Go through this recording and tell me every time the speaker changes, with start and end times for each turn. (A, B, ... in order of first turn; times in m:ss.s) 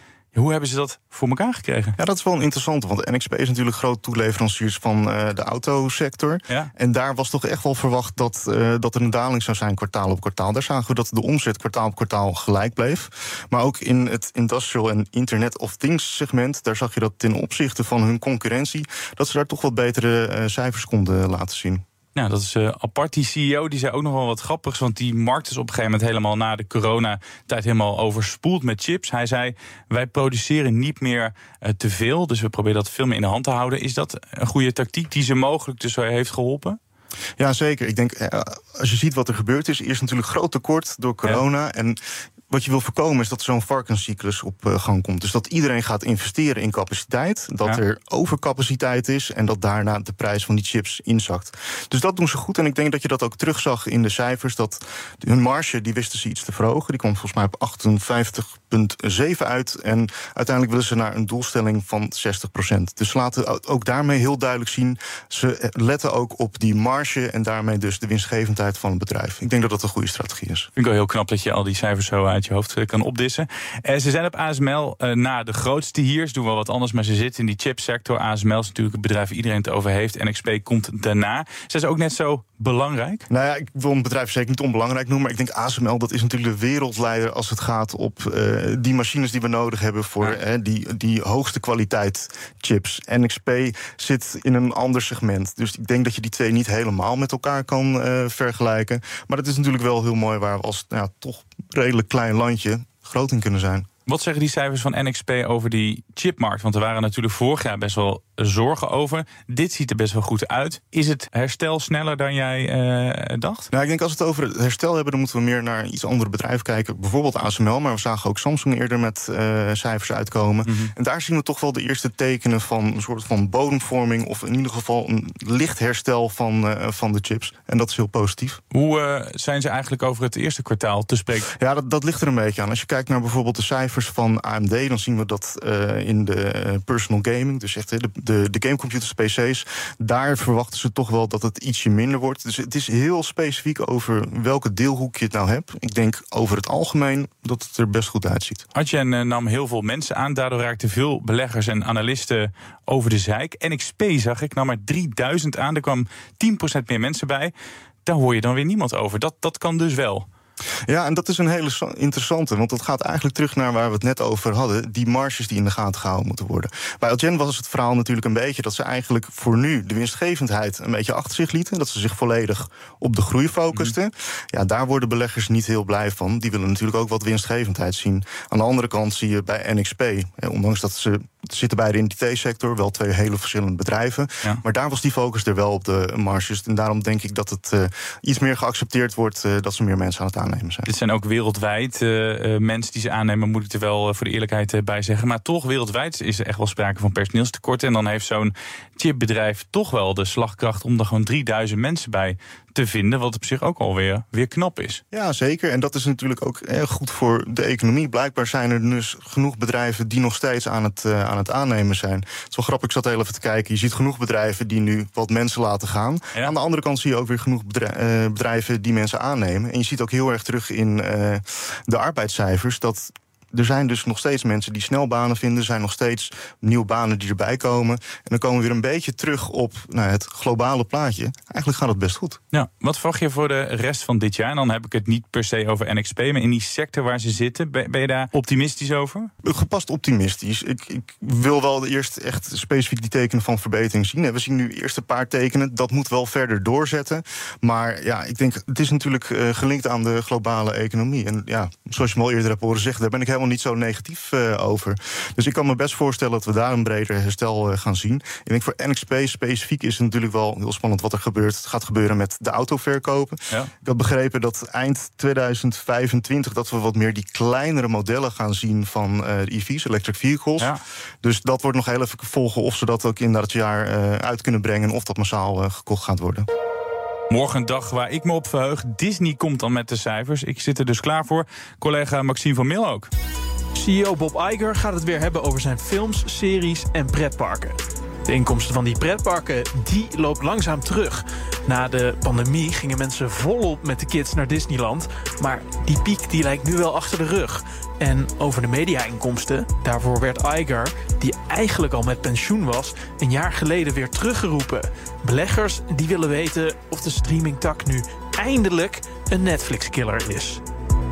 0:00.3-0:02.0 A
0:02.0-0:21.8 B
0:22.1-0:36.8 A
0:37.4-0:42.0 B
0:42.5-1:10.7 B
1:10.8-1:23.3 A
1:23.3-1:43.9 B
1:44.0-1:53.7 A
1:53.7-2:08.6 B
2:00.6-2:00.9 A
2:08.7-2:11.5 A
2:11.5-2:28.6 B
2:28.7-2:37.5 A
2:38.0-2:40.3 A
2:40.9-3:10.9 B
3:10.9-3:25.0 A
3:25.1-3:52.4 B
3:52.5-3:59.3 A
3:59.4-4:36.5 B
4:37.3-4:43.1 A
4:43.8-5:10.6 C